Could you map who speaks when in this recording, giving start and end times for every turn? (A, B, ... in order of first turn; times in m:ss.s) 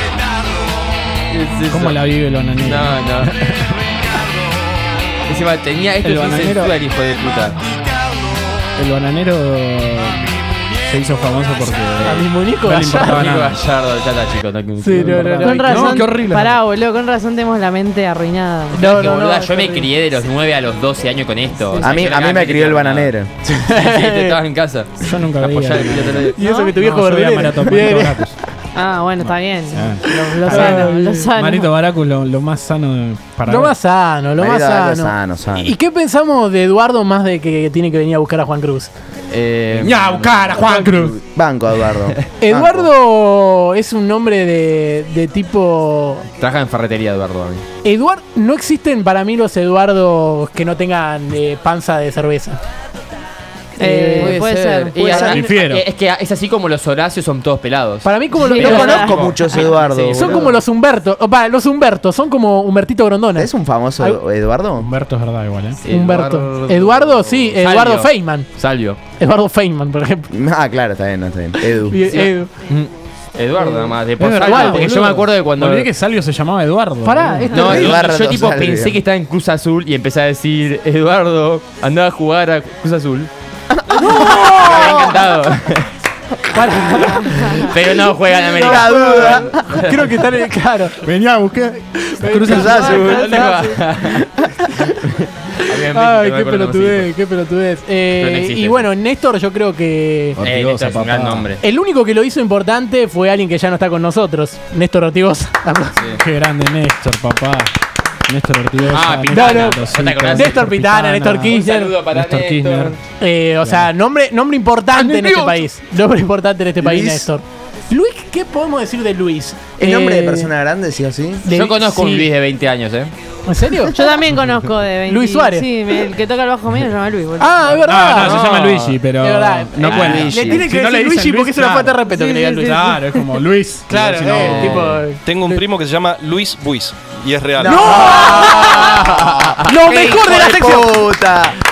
0:01.3-0:03.4 A
0:01.7-0:03.8 B
0:05.3-0:07.6 A
0:06.0-0:06.8 B
0:08.8-0:13.6 B
0:12.0-0:13.3 C
0:13.0-0:15.6 A
0:14.8-0:16.1 C
0:14.9-0:16.6 B
0:15.4-0:18.9 D
0:18.7-0:19.9 C
0:18.7-0:23.1 A
0:21.6-0:21.9 D
0:21.8-0:23.3 E
0:23.5-0:24.4 C
0:23.7-0:26.3 A
0:25.0-0:28.4 B
0:26.3-0:28.2 C
0:26.4-0:26.7 D
0:28.7-0:31.7 D
0:29.2-0:33.7 B
0:30.0-0:31.2 C
0:33.5-0:38.9 C
0:34.4-0:35.7 E
0:39.3-0:40.6 A
0:39.8-0:41.2 B
0:40.5-0:40.9 C
0:40.8-0:42.9 E
0:42.4-0:46.2 C
0:46.4-0:47.6 A
0:47.8-0:52.6 C
0:53.8-0:54.4 C
0:53.8-0:55.3 D
0:54.2-1:00.4 A
0:55.0-0:55.4 C
0:55.2-0:55.8 B
0:58.0-1:04.2 C
0:58.4-0:59.6 D
0:58.6-1:00.6 E
1:03.4-1:04.9 E
1:04.8-1:05.8 B
1:05.8-1:09.0 A
1:05.9-1:08.5 C
1:09.2-1:10.3 C
1:10.3-1:12.0 E
1:11.6-1:12.5 C
1:12.1-1:15.9 A
1:13.6-1:14.8 C
1:14.2-1:17.5 B
1:17.0-1:18.0 C
1:17.5-1:23.3 A
1:17.6-1:19.0 E
1:23.8-1:24.9 E
1:23.9-1:25.9 A
1:23.9-1:25.1 C
1:26.5-1:27.7 C
1:27.4-1:30.0 A
1:28.3-1:31.1 C
1:28.4-1:29.8 E
1:31.0-1:33.2 B
1:32.0-1:35.0 C
1:32.4-1:33.4 E
1:32.7-1:37.1 A
1:35.6-1:40.4 C
1:38.2-1:38.9 A
1:40.4-1:41.5 B
1:40.4-1:41.6 A
1:41.6-1:46.0 C
1:46.0-1:46.2 A
1:46.2-1:47.7 B
1:48.3-1:51.5 B
1:48.9-1:53.0 A
1:49.3-1:51.9 C
1:52.1-1:53.0 B
1:53.2-2:00.5 C
1:55.1-1:55.4 A
1:56.8-1:57.3 E
1:59.8-2:01.5 E
2:01.4-2:02.3 C
2:01.5-2:03.1 A
2:03.5-2:04.1 C
2:03.9-2:08.1 D
2:05.0-2:05.7 C
2:07.4-2:08.4 C
2:07.9-2:12.0 B
2:08.1-2:09.0 A
2:09.2-2:13.0 C
2:09.8-2:10.3 A
2:09.9-2:10.7 E
2:12.1-2:13.2 D
2:12.6-2:15.0 B
2:13.9-2:15.2 C
2:14.4-2:14.9 A
2:15.2-2:17.8 F
2:17.6-2:21.6 E
2:17.6-2:21.1 C